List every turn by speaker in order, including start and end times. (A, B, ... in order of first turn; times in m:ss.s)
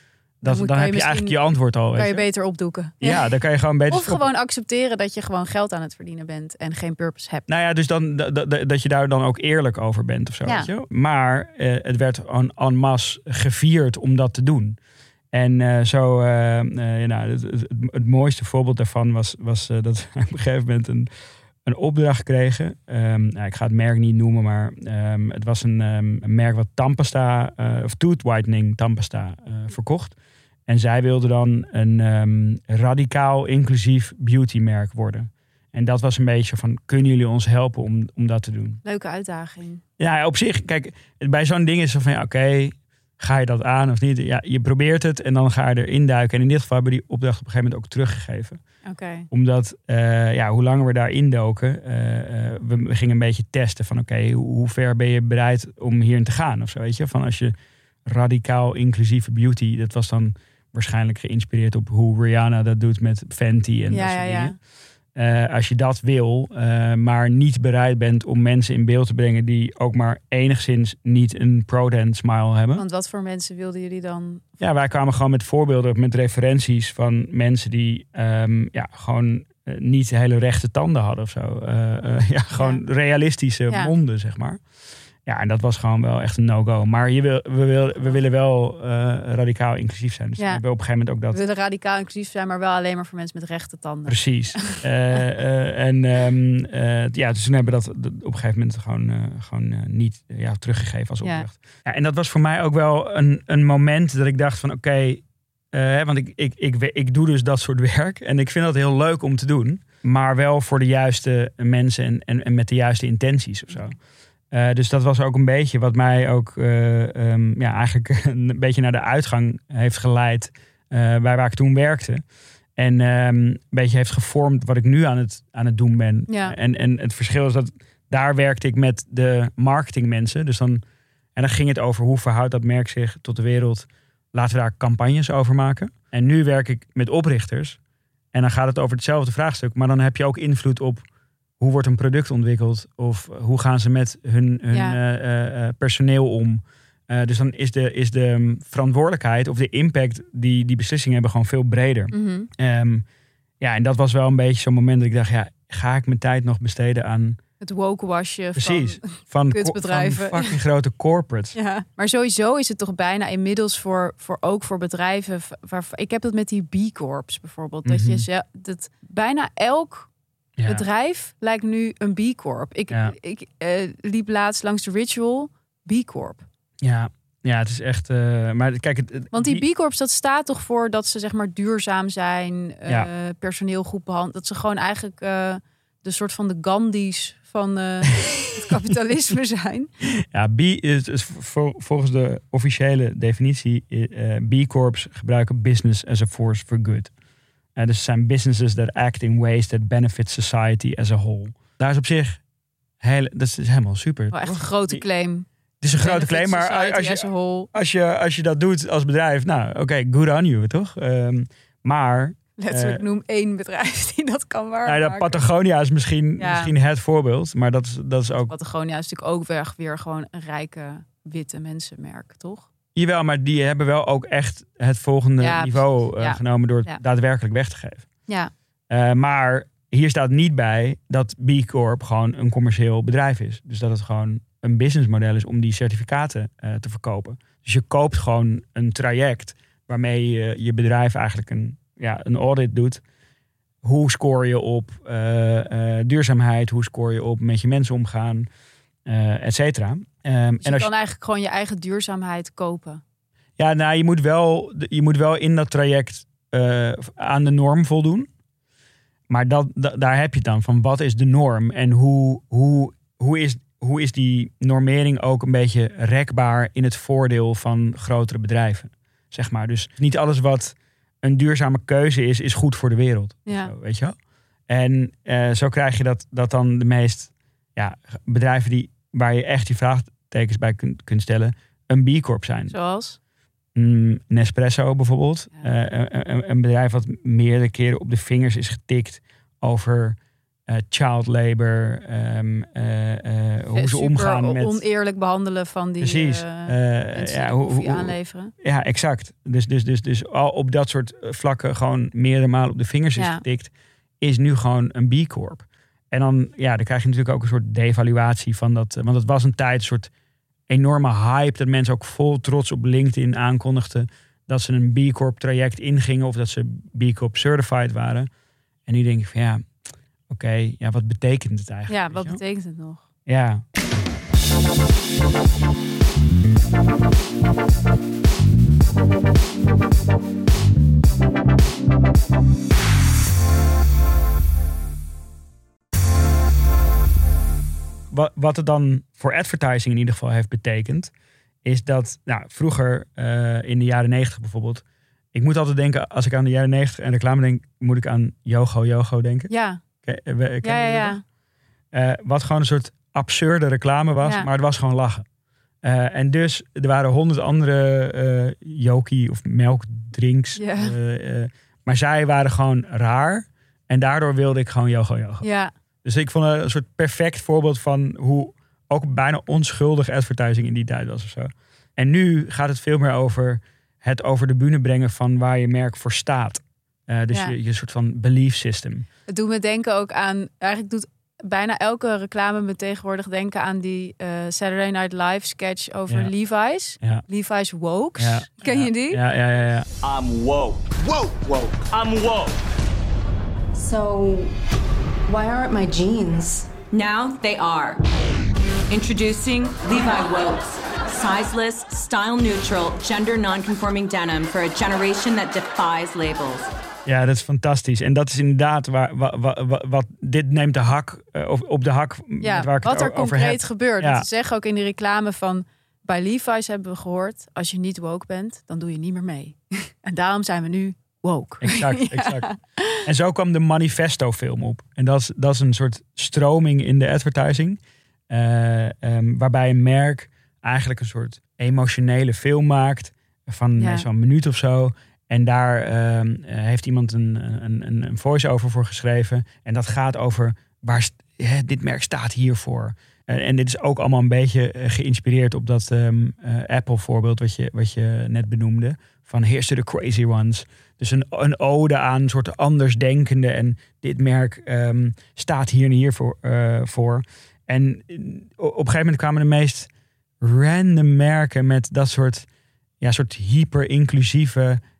0:00.4-0:02.2 A
0:00.4-0:01.4 B
0:02.0-0:03.3 B
0:03.0-0:04.2 A
0:03.9-0:07.5 B
0:07.5-0:14.8 A
0:15.3-0:21.1 A
0:21.6-0:30.2 A
0:30.7-0:38.8 A
0:38.8-0:39.8 B
0:40.0-0:48.6 A
0:48.8-0:49.3 B
0:49.3-0:57.5 A
0:58.0-1:04.6 A
1:03.9-1:04.5 B
1:05.2-1:12.8 A
1:12.8-1:14.5 B
1:14.6-1:24.6 A
1:25.2-1:31.4 A
1:31.3-1:35.2 B
1:34.0-1:54.0 A
1:54.5-2:02.2 A
2:02.8-2:10.8 A
2:06.3-2:06.5 B
2:11.4-2:17.8 A
2:18.3-2:21.0 A
2:21.6-2:33.0 A
2:24.7-2:25.0 B
2:32.1-2:32.5 B
2:33.6-2:37.4 A
2:37.6-2:40.6 B
2:38.6-2:41.6 A
2:41.5-2:50.1 B
2:47.8-2:48.2 A
2:50.6-2:50.8 A
2:50.7-2:56.5 B
2:56.8-2:59.6 A
2:59.3-3:09.9 B
3:10.2-3:17.1 A
3:17.8-3:22.4 A
3:23.0-3:25.0 A
3:24.3-3:25.5 B
3:25.8-3:33.0 A
3:26.0-3:27.7 B
3:32.6-3:35.4 B
3:34.8-3:38.5 A
3:36.4-3:36.7 B
3:38.5-3:42.7 B
3:43.0-3:48.0 A
3:45.4-3:47.0 B
3:48.9-4:03.0 A
4:03.8-4:08.5 A
4:09.0-4:10.9 A
4:10.6-4:13.0 B
4:13.6-4:18.3 A
4:19.3-4:34.2 A
4:33.5-4:33.7 B
4:34.7-4:42.7 A
4:42.7-4:43.2 B
4:43.8-4:50.2 A
4:50.7-4:54.8 A
4:53.7-4:58.5 B
4:56.0-5:10.1 A
5:03.2-5:03.4 B
5:10.7-5:18.3 A
5:18.9-5:19.7 A
5:20.3-5:22.4 A
5:21.9-5:23.0 B
5:23.2-5:23.6 A
5:38.1-5:41.1 A
5:41.6-5:49.5 A
5:49.5-5:49.8 B
5:50.0-5:51.2 A
5:50.6-5:51.2 B
5:51.9-5:55.2 A
5:54.2-5:54.5 B
5:55.8-6:05.5 A
6:00.6-6:01.0 B
6:05.4-6:05.7 B
6:06.0-6:19.0 A
6:19.3-6:29.2 B
6:28.2-6:29.9 A
6:30.0-6:32.5 C
6:33.8-6:34.5 D
6:35.3-6:36.8 D
6:36.9-6:38.0 E
6:38.9-6:46.7 E
6:47.0-6:54.2 A
6:52.4-7:03.0 B
7:01.6-7:02.5 A
7:03.0-7:39.9 A
7:13.8-7:14.0 B
7:40.4-7:42.5 A
7:43.0-7:44.8 A